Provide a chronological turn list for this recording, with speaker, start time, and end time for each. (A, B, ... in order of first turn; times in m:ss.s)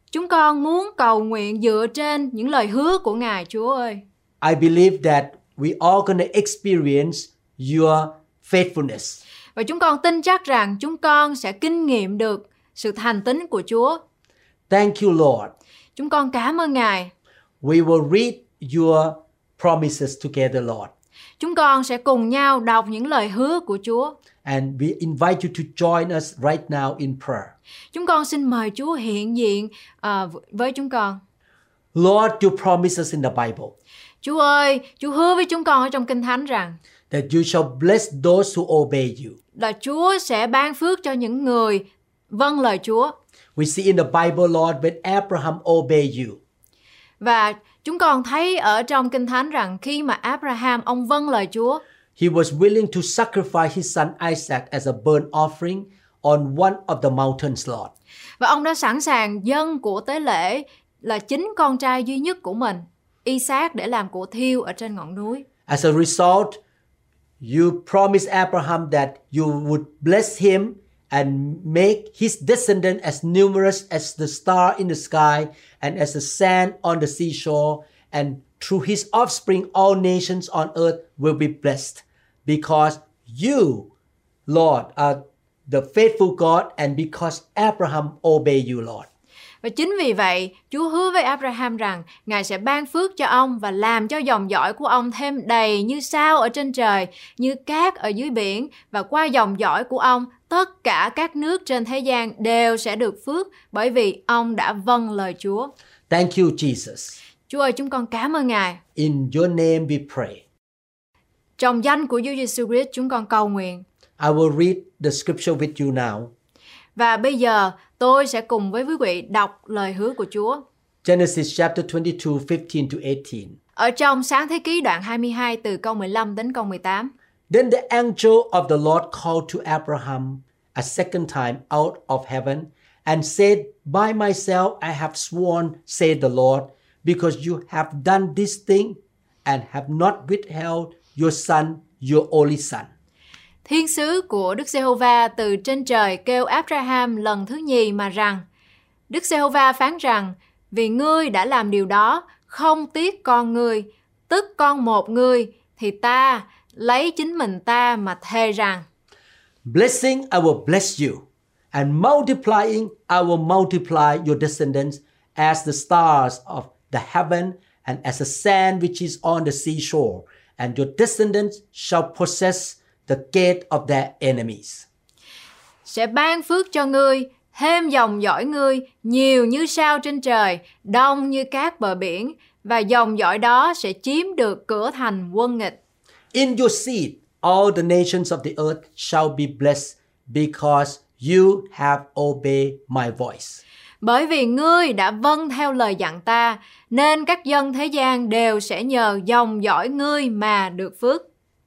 0:00.1-0:04.0 A
0:04.4-0:09.2 B
0:09.6-0:14.0 A
0:14.7-0:15.5 B
0:16.0-0:17.1 A
0:17.6-0:20.9 B
0:21.4-0:24.2 A
0:24.4-0:27.5 B
0:27.9-0:31.2 A
0:31.9-0:33.8 B
0:34.2-0:36.8 A
0:37.1-0:39.4 B
0:39.6-0:43.1 A
0:43.6-0:46.4 B
0:47.2-0:51.8 A
0:52.2-0:57.9 B
0:58.4-1:05.5 A
1:05.7-1:06.6 B
1:07.4-1:23.9 B
1:24.5-1:29.1 B
1:29.6-1:45.7 A
1:46.1-1:47.2 B
1:47.5-1:48.8 A
1:49.0-1:50.4 B
1:51.6-1:53.8 A
1:54.2-1:56.3 B
1:57.0-2:00.6 A
2:01.0-2:03.6 B
2:03.8-2:07.1 A
2:07.5-2:22.9 B
2:23.7-2:28.4 A
2:29.1-2:38.8 A
2:39.6-2:54.9 B
2:55.8-3:05.8 A
3:06.3-3:13.6 B
3:14.0-3:21.2 A